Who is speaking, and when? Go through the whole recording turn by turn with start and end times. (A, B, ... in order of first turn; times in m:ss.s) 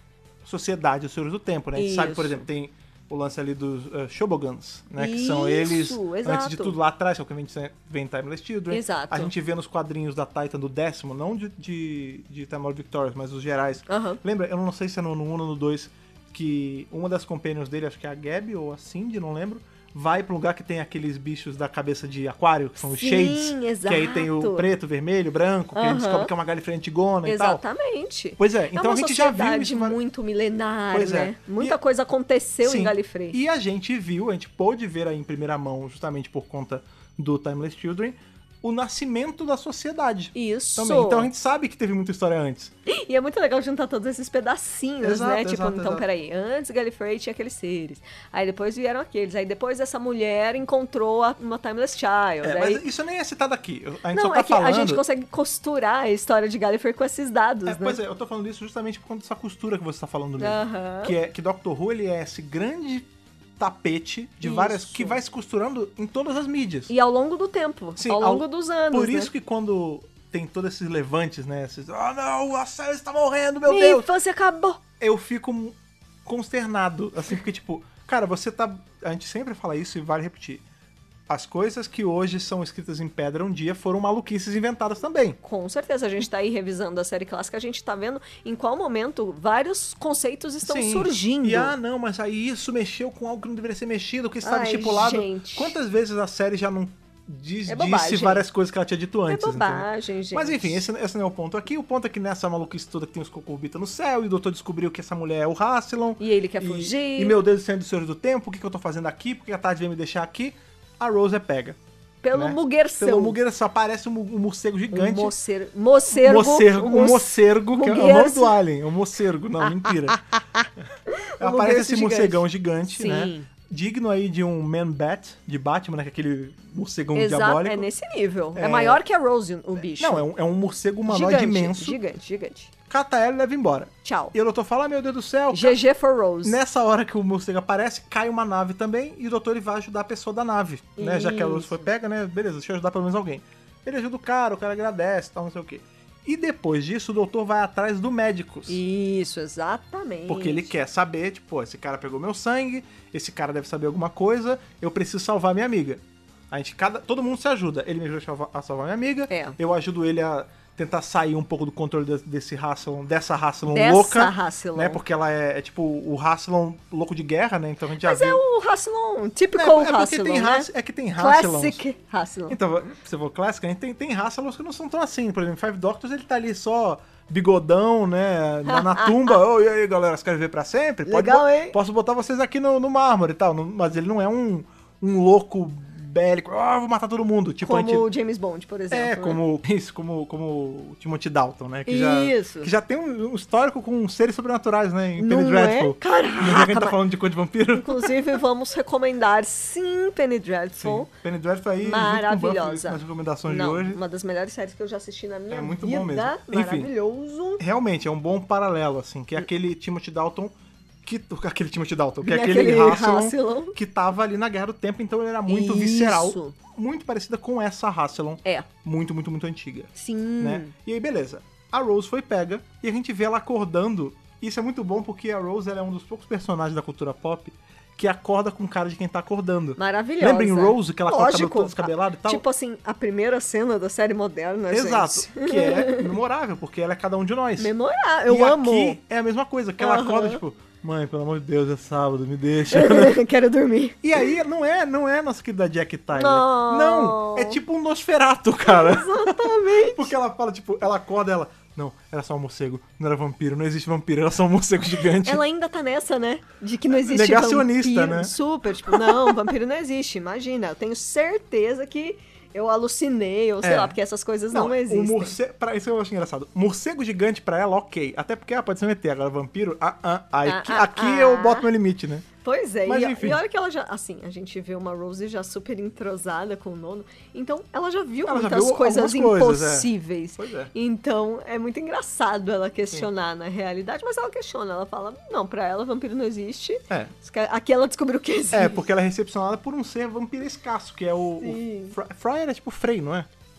0:00.4-0:27.6 A
0:01.8-0:02.5 B
0:05.0-0:06.8 B
0:08.7-0:09.3 B
0:13.9-0:14.2 B
0:22.8-0:24.7 B
0:25.8-0:26.3 B
0:27.2-0:33.4 B
0:28.4-0:30.0 A
0:30.9-0:31.8 A
0:32.6-0:42.7 A
0:40.4-0:41.3 B
0:42.9-0:52.8 B
0:45.0-0:46.0 A
0:52.4-0:55.0 A
0:54.1-0:58.0 B
0:57.7-1:03.1 A
1:00.4-1:01.1 B
1:03.6-1:06.9 A
1:04.4-1:05.2 B
1:06.9-1:09.3 B
1:08.0-1:14.1 A
1:13.7-1:14.8 B
1:15.0-1:20.6 A
1:21.3-1:25.4 A
1:25.4-1:31.7 B
1:30.6-1:51.8 A
1:34.4-1:35.8 B
1:37.7-1:38.5 B
1:39.3-1:40.8 B
1:46.2-1:47.4 B
1:52.2-1:53.4 B
1:52.3-1:55.3 A
1:54.9-1:58.6 B
1:56.1-2:00.2 A
1:59.6-2:03.5 B
2:01.4-2:07.9 A
2:07.2-2:10.3 B
2:08.6-2:09.0 A
2:10.0-2:12.0 A
2:11.1-2:12.7 B
2:12.9-2:15.8 A
2:14.0-2:14.3 B
2:15.5-2:16.6 B
2:16.4-2:28.8 A
2:21.0-2:21.9 B
2:28.7-2:30.7 B
2:30.3-2:48.4 A
2:39.3-2:39.6 B
2:43.7-2:45.0 B
2:48.0-2:52.6 B
2:49.6-2:51.8 A
2:52.5-3:08.1 A
2:58.7-2:59.4 B
3:01.1-3:01.8 B
3:07.6-3:09.4 B
3:08.9-3:18.2 A
3:11.9-3:12.7 B
3:15.2-3:17.0 B
3:17.8-3:21.1 B
3:20.8-3:24.0 A
3:21.8-3:27.6 B
3:25.5-3:26.9 A
3:27.6-3:30.5 A
3:31.0-3:52.4 A
3:32.2-3:33.8 B
3:35.5-3:36.6 B
3:40.0-3:40.7 B
3:49.8-3:56.1 B
3:54.7-3:57.7 A
3:57.6-3:59.0 B
3:58.3-4:03.2 A
3:59.8-4:00.4 B
4:02.7-4:04.2 B
4:04.0-4:15.4 A
4:06.1-4:07.6 B
4:08.6-4:10.1 B
4:15.2-4:25.4 B
4:17.0-4:19.3 A
4:23.6-4:24.0 A
4:24.5-4:32.3 A
4:30.4-4:31.7 B
4:32.4-4:48.8 B
4:32.9-4:33.4 A
4:38.3-4:40.7 A
4:48.5-4:53.3 A
4:51.4-4:52.0 B